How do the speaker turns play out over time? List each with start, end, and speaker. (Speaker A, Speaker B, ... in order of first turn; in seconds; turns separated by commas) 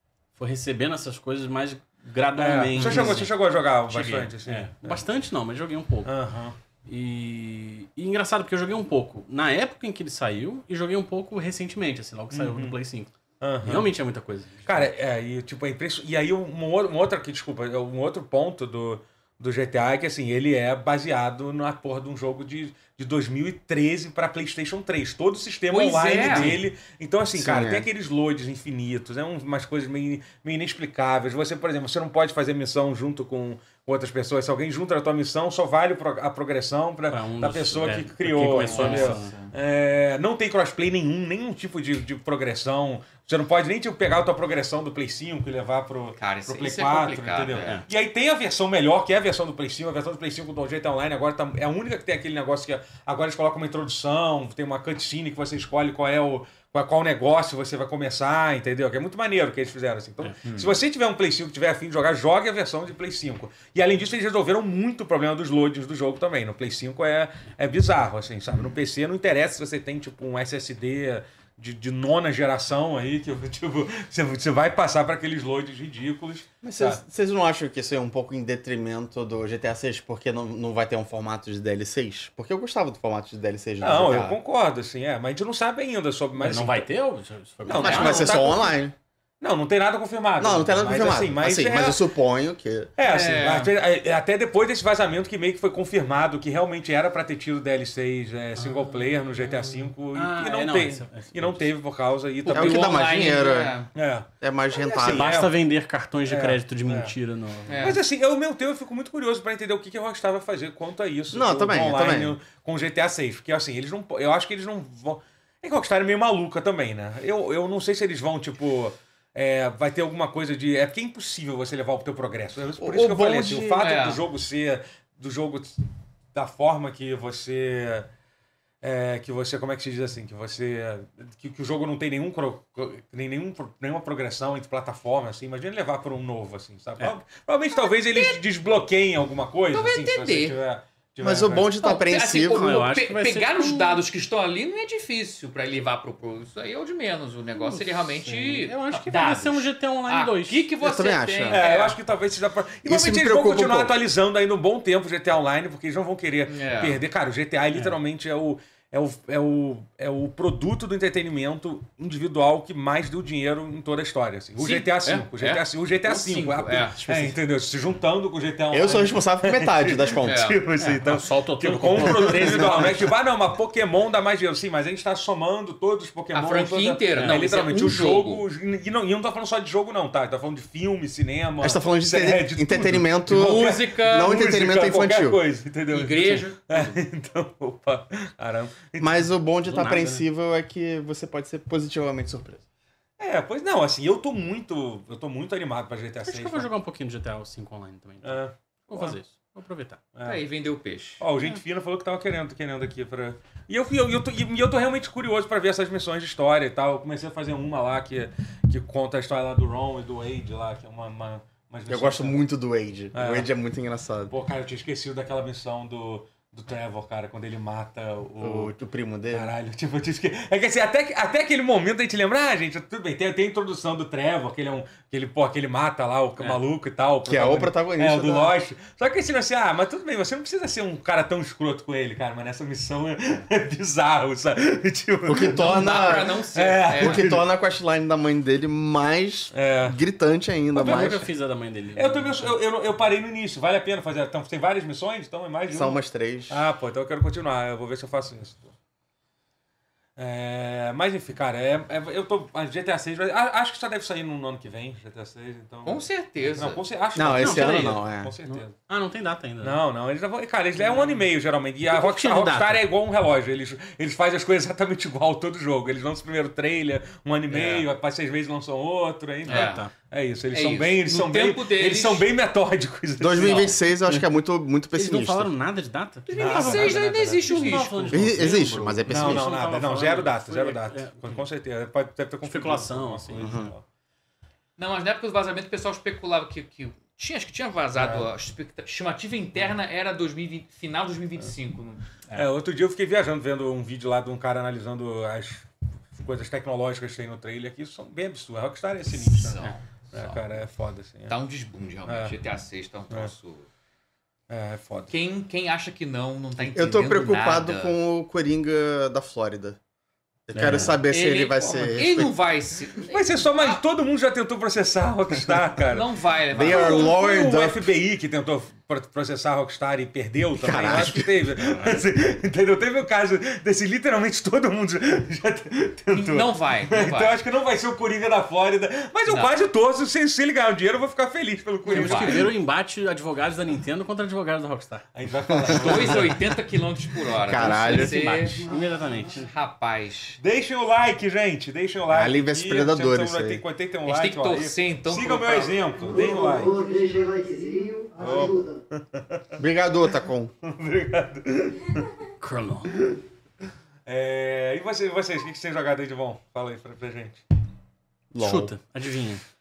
Speaker A: 0.3-6.2, Speaker B: 2.4-5.0, Speaker B: 6.0-6.6, Speaker A: 6.9-13.1, Speaker B: 12.3-12.8, Speaker B: 13.4-13.9, Speaker A: 13.6-14.9, Speaker B: 14.7-77.0, Speaker C: 25.7-26.6, Speaker D: 27.3-27.9, Speaker A: 37.1-39.3, Speaker C: 38.6-39.5, Speaker C: 46.2-47.8, Speaker C: 60.4-60.8, Speaker D: 76.6-84.4, Speaker B: 83.8-86.9, Speaker A: 86.3-88.3, Speaker B: 87.7-88.8, Speaker D: 87.8-89.0, Speaker C: 87.8-88.4, Speaker B: 89.4-92.0, Speaker D: 90.4-92.9, Speaker B: 93.0-103.1, Speaker C: 93.0-93.7, Speaker A: 98.6-98.9, Speaker A: 100.1-101.7, Speaker C: 102.5-103.9, Speaker D: 102.5-103.8, Speaker B: 104.0-105.6, Speaker D: 104.4-105.3, Speaker A: 105.0-107.9, Speaker B: 106.2-107.1, Speaker C: 107.7-108.0, Speaker B: 107.8-125.8, Speaker D: 111.3-112.4, Speaker C: 122.8-124.2, Speaker D: 122.9-123.6, Speaker B: 126.3-128.1, Speaker B: 128.8-141.7, Speaker C: 137.8-138.4, Speaker C: 139.7-140.6, Speaker D: 141.2-142.7, Speaker C: 141.8-152.0, Speaker A: 142.4-144.0, Speaker A: 147.6-150.7, Speaker D: 150.8-151.6, Speaker B: 151.5-189.3, Speaker D: 152.8-153.9, Speaker C: 156.5-157.0, Speaker C: 164.6-167.1, Speaker A: 167.1-167.3, Speaker D: 168.7-170.4, Speaker C: 170.2-170.6, Speaker A: 170.8-173.1, Speaker D: 172.2-173.0, Speaker C: 176.3-178.4, Speaker A: 177.2-177.4, Speaker D: 181.6-185.4, Speaker C: 183.3-184.5, Speaker C: 185.9-186.9, Speaker D: 189.0-192.6, Speaker A: 189.6-190.3, Speaker B: 193.2-196.7, Speaker A: 196.2-200.0, Speaker B: 198.2-199.1, Speaker B: 200.2-200.4, Speaker C: 200.2-201.2, Speaker B: 201.2-212.4, Speaker D: 211.9-214.3, Speaker B: 213.1-213.5, Speaker B: 214.3-218.7, Speaker D: 218.4-219.5, Speaker B: 219.3-235.9, Speaker D: 227.3-228.6, Speaker D: 235.3-236.4, Speaker C: 235.4-237.3, Speaker B: 236.5-237.4, Speaker D: 237.0-241.2, Speaker B: 239.5-240.0, Speaker A: 240.8-242.6, Speaker B: 240.8-241.3, Speaker B: 242.0-246.0, Speaker D: 245.7-246.6, Speaker B: 246.5-248.7, Speaker B: 250.2-258.8, Speaker C: 255.8-256.8, Speaker D: 257.1-258.3, Speaker C: 257.4-258.0, Speaker A: 258.4-259.8, Speaker B: 259.6-273.8, Speaker A: 260.8-261.3, Speaker A: 261.9-262.9, Speaker A: 267.5-267.9, Speaker A: 269.4-269.9, Speaker C: 269.5-269.9, Speaker C: 270.5-272.3, Speaker D: 273.2-275.5, Speaker C: 273.4-273.8, Speaker A: 274.9-281.5, Speaker C: 276.3-278.3, Speaker B: 276.3-278.0, Speaker D: 278.1-279.5, Speaker B: 279.1-283.9, Speaker A: 282.4-283.6, Speaker D: 283.4-283.7, Speaker C: 284.8-292.5, Speaker B: 287.9-288.2, Speaker B: 292.3-301.4, Speaker C: 299.1-300.4, Speaker C: 301.3-303.7, Speaker B: 302.1-302.4, Speaker B: 304.5-305.1, Speaker C: 305.1-307.9, Speaker D: 306.7-309.8, Speaker D: 310.5-312.3, Speaker A: 310.5-311.0, Speaker C: 311.1-313.8, Speaker B: 313.1-332.5, Speaker C: 315.9-317.2, Speaker D: 316.5-317.9, Speaker D: 320.6-321.4, Speaker A: 320.7-322.0, Speaker C: 326.1-327.4, Speaker C: 329.3-329.5, Speaker C: 331.9-332.5, Speaker A: 331.9-335.1, Speaker B: 335.1-336.4, Speaker A: 335.7-336.1, Speaker C: 335.7-338.6, Speaker D: 337.4-338.6, Speaker A: 337.6-339.5, Speaker E: 338.6-339.3, Speaker C: 339.3-340.4, Speaker B: 340.4-346.8, Speaker D: 342.1-343.6, Speaker C: 344.1-345.9, Speaker E: 346.0-348.8, Speaker B: 348.2-349.6, Speaker D: 349.6-350.5, Speaker B: 350.6-352.1, Speaker A: 352.4-353.0, Speaker B: 352.9-353.2, Speaker B: 354.1-357.4, Speaker D: 358.3-358.7, Speaker A: 358.4-359.4